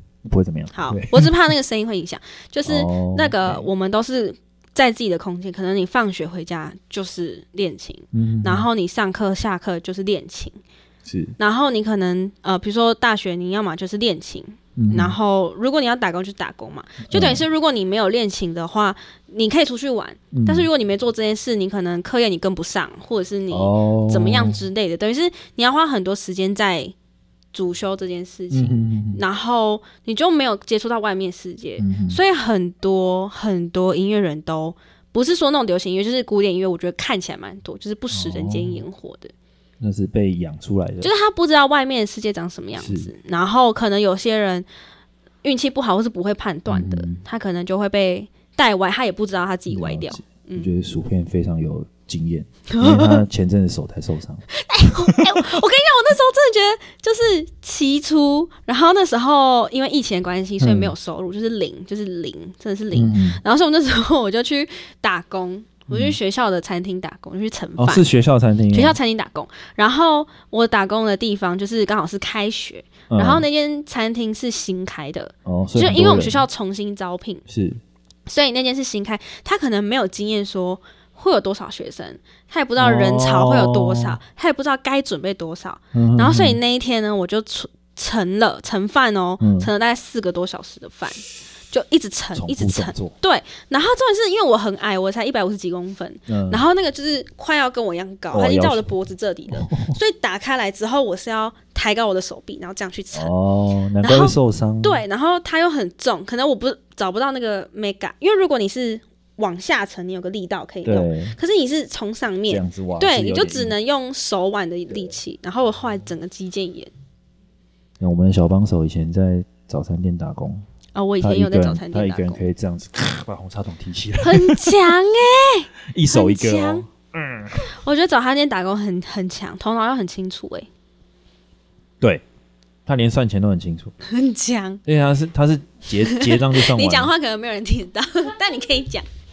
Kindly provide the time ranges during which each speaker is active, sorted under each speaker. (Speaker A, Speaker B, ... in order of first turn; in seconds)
Speaker A: 0.2-1.3, 2.6-3.7, 8.1-8.7, 11.1-11.3, 14.8-15.2, 17.1-17.4, 20.3-20.7, 23.5-24.6, 28.5-29.2, 31.8-32.2, 38.1-38.8, 39.8-41.1, 42.8-43.1, 46.7-47.2, 49.7-54.5, 60.6-60.9, 62.9-63.4, 65.9-66.2, 67.8-69.0, 73.1-73.4, 75.5-76.4, 77.5-77.8, 82.8-84.2, 85.9-86.6, 89.4-89.7, 92.3-93.1, 96.3-96.6, 98.3-98.9, 99.5-100.0, 103.1-105.0, 110.8-111.4, 112.5-113.8, 118.0-120.6, 121.2-124.7, 125.9-127.7, 132.8-133.9, 134.8-137.1
Speaker B: 0.7-10.6, 11.4-26.9, 27.5-39.3, 41.0-44.7, 45.4-50.7, 52.7-53.2, 54.5-68.0, 68.7-77.4, 78.3-103.3, 104.0-116.9, 120.9-122.4, 124.2-126.8, 127.7-130.7, 134.0-134.8, 136.1-139.0